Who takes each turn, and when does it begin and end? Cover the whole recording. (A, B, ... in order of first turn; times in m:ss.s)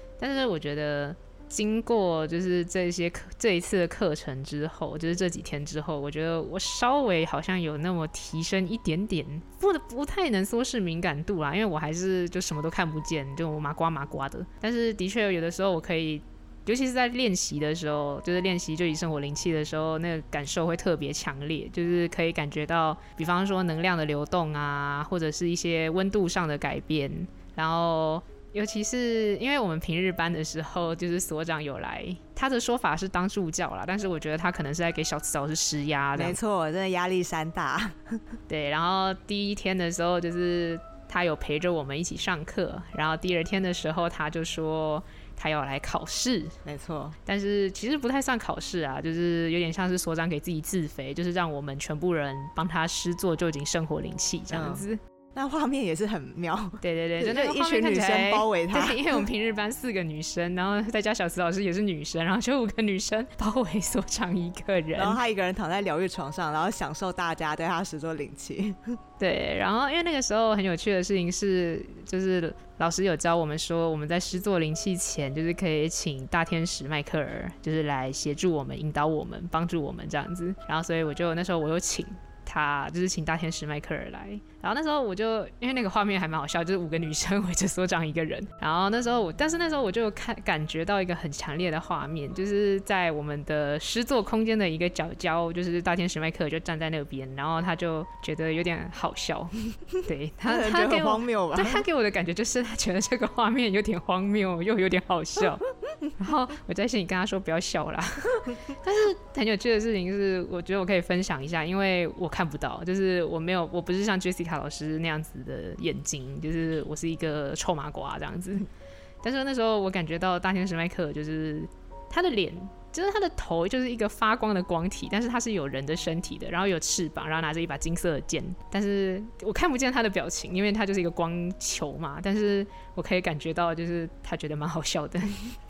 0:00.2-0:36.4 A
0:36.2-0:38.2 B
0:38.5-0:46.6 A
0:46.6-0:47.2 B
0:47.3-0:55.0 A
0:54.5-0:59.2 B
0:56.8-1:05.2 A
1:05.0-1:09.0 B
1:09.2-1:45.6 A
1:40.5-1:41.8 B
1:46.2-1:58.7 A
1:59.2-2:15.5 A